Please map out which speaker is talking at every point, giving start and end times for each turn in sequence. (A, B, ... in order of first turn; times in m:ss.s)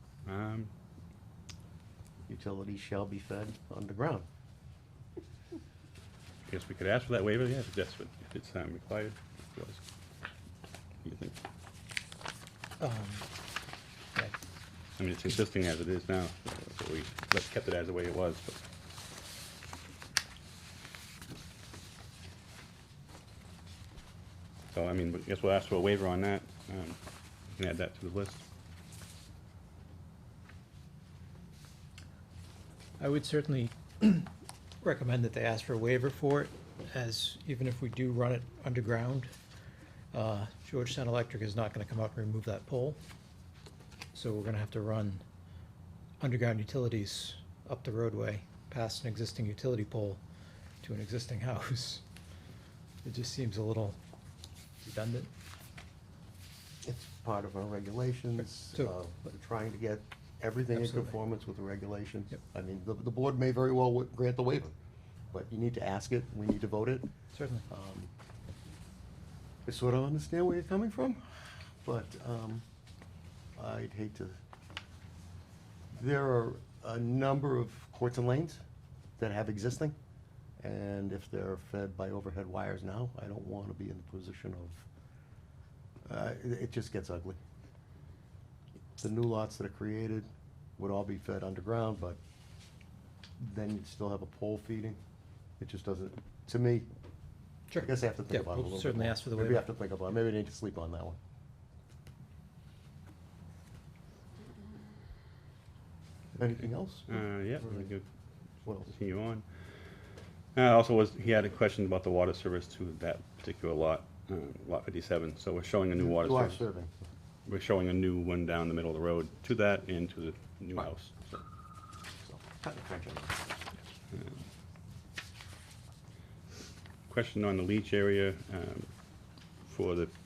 0:00.2-0:00.7 A
0:02.3-0:04.3 B
0:06.5-0:09.8 A
0:11.0-0:11.4 A
0:12.8-0:13.3 C
0:15.0-0:18.6 A
0:24.7-0:27.0 A
0:27.6-0:28.4 A
0:33.0-0:34.3 C
0:34.8-0:39.3 C
0:40.1-0:43.0 C
0:44.1-0:45.2 C
0:46.2-0:50.2 C
0:50.8-0:52.0 C
0:53.0-0:54.0 C
0:54.8-0:55.3 C
0:56.8-1:04.7 B
0:58.4-0:58.9 C
1:00.7-1:01.2 C
1:05.3-1:07.1 B
1:07.3-1:07.6 C
1:07.7-1:08.1 B
1:09.7-1:12.6 B
1:13.6-1:14.4 B
1:15.9-1:18.6 B
1:19.2-1:20.0 B
1:20.6-1:24.9 B
1:26.0-1:27.4 B
1:29.0-1:32.2 B
1:33.4-1:35.0 B
1:35.6-1:36.9 B
1:37.7-1:39.6 C
1:37.8-1:41.2 B
1:46.4-1:47.9 B
1:47.1-1:48.0 A
1:48.7-1:48.9 B
1:48.8-1:49.4 A
1:50.6-1:56.6 A
1:56.0-1:57.0 B
1:57.5-2:01.4 A
2:02.2-2:03.8 B
2:04.1-2:04.4 A
2:07.1-2:08.9 A
2:09.7-2:10.1 A